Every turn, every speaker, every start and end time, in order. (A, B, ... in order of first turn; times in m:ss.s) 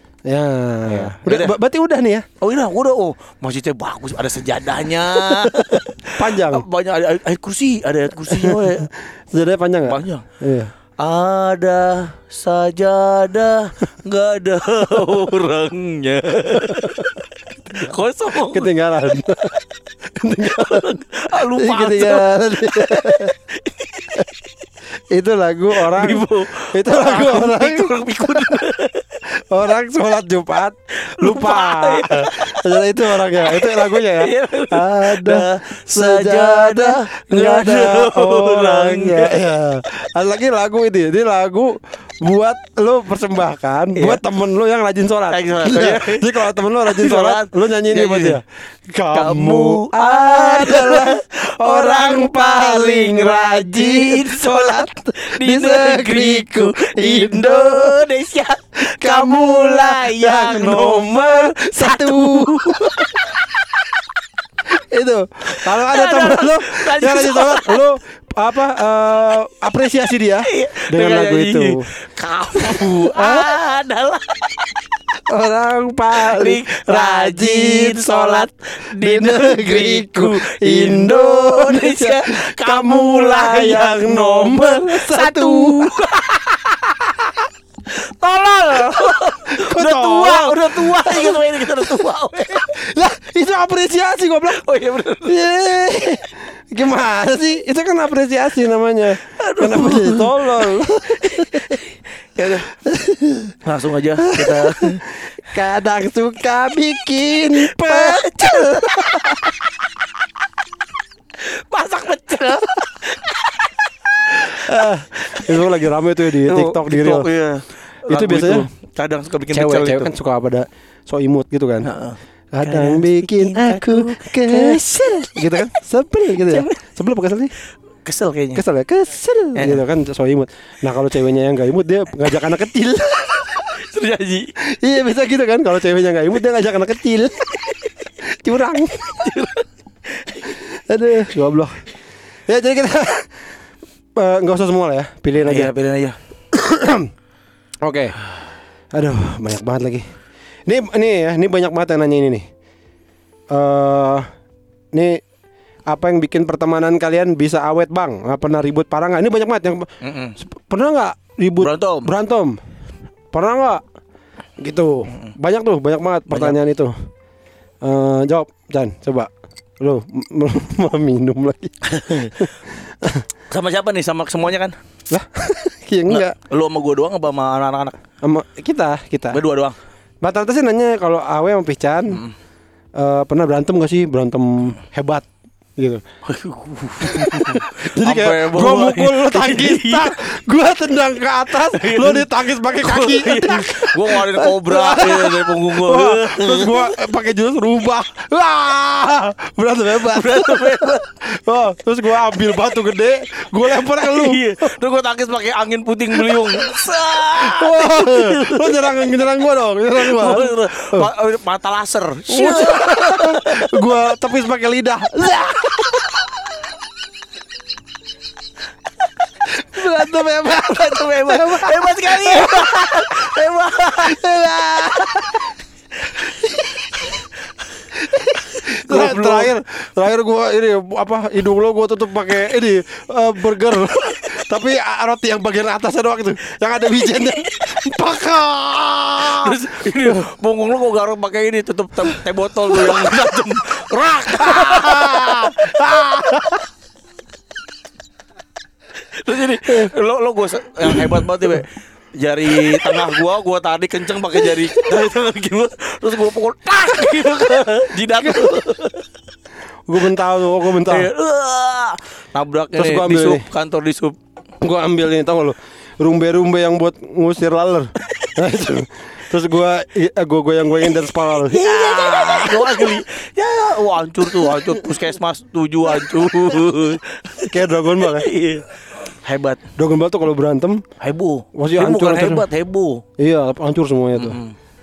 0:00.2-0:02.2 A
0:00.8-0:01.5 B
0:02.4-0:08.9 B
0:05.2-0:06.6 A
0:08.2-0:10.7 A
0:09.9-0:10.2 B
0:11.0-0:18.7 B
0:16.5-0:17.0 A
0:17.7-0:19.5 A
0:20.2-0:20.9 A
0:20.4-0:24.3 B
0:21.5-0:23.3 A
0:25.1-0:28.6 A
0:25.8-0:29.2 B
0:29.4-0:58.0 A
0:31.0-0:32.6 B
0:33.1-0:39.4 B
0:43.9-0:44.2 B
0:45.3-0:48.4 B
0:49.1-1:03.8 B
0:59.0-1:03.2 A
1:04.7-1:11.8 A
1:05.5-1:07.8 B
1:10.5-1:14.7 B
1:12.6-1:13.5 A
1:15.3-1:27.5 A
1:16.2-1:26.4 B
1:27.9-1:32.8 B
1:28.8-1:32.1 A
1:32.7-1:34.6 A
1:34.5-1:35.5 B
1:35.3-1:41.8 A
1:39.2-1:42.7 B
1:42.8-1:43.5 A
1:43.6-1:45.0 B
1:44.2-1:49.6 A
1:47.7-1:49.2 B
1:51.4-1:53.7 B
1:54.3-1:55.6 B
1:54.4-1:57.3 A
1:56.4-2:00.1 B
1:58.1-1:58.6 A
1:59.5-2:01.9 A
2:01.8-2:05.6 B
2:02.5-2:07.5 A
2:06.3-2:06.8 B
2:08.0-2:08.6 B
2:08.5-2:13.7 A
2:09.5-2:09.8 B
2:13.7-2:14.5 B
2:14.6-2:17.5 A
2:18.2-2:19.3 A
2:19.0-2:20.5 B
2:20.5-2:21.8 A
2:22.5-2:23.5 A
2:24.1-2:25.7 A
2:25.4-2:26.2 B
2:26.5-2:27.1 A
2:27.8-2:28.2 A
2:28.9-2:30.1 A
2:30.6-2:32.4 A
2:33.5-2:34.3 A
2:34.9-2:35.2 A
2:35.9-2:42.5 A
2:40.0-2:40.4 B
2:41.6-2:42.1 B
2:43.3-2:43.8 A
2:44.6-2:46.9 A
2:46.3-2:46.6 B
2:47.8-2:51.8 A
2:51.8-2:52.4 B
2:52.4-2:53.3 A
2:53.5-2:54.8 B
2:55.1-2:56.3 A
2:56.1-2:58.0 B
2:58.2-2:59.4 A
2:59.3-2:59.8 B
3:00.2-3:02.2 A
3:03.0-3:06.0 A
3:06.2-3:10.1 B
3:07.0-3:24.7 A
3:11.5-3:16.9 B
3:20.0-3:21.1 B
3:23.8-3:28.8 B
3:26.1-3:26.6 A
3:27.4-3:31.1 A
3:29.9-3:33.7 B
3:32.3-3:36.4 A
3:39.4-3:45.5 A
3:40.5-3:44.2 B
3:46.1-3:47.2 A
3:46.3-3:47.2 B
3:47.9-4:00.2 A
3:48.4-3:49.5 B
3:57.3-3:57.6 B
3:59.2-4:06.1 B
4:02.0-4:03.0 A
4:04.3-4:06.7 A
4:09.0-4:19.1 B
4:10.8-4:11.6 A
4:12.5-4:13.1 A
4:14.4-4:14.9 A
4:18.2-4:18.5 A
4:19.9-4:21.1 A
4:20.8-4:24.2 B
4:22.7-4:23.4 A
4:24.6-4:33.0 A
4:28.0-4:28.3 B
4:31.4-4:39.6 B
4:34.2-4:35.0 A
4:37.5-4:38.3 A
4:39.8-4:40.8 A
4:41.0-4:43.0 B
4:41.5-4:42.5 A
4:43.2-4:44.4 A
4:44.1-4:44.6 B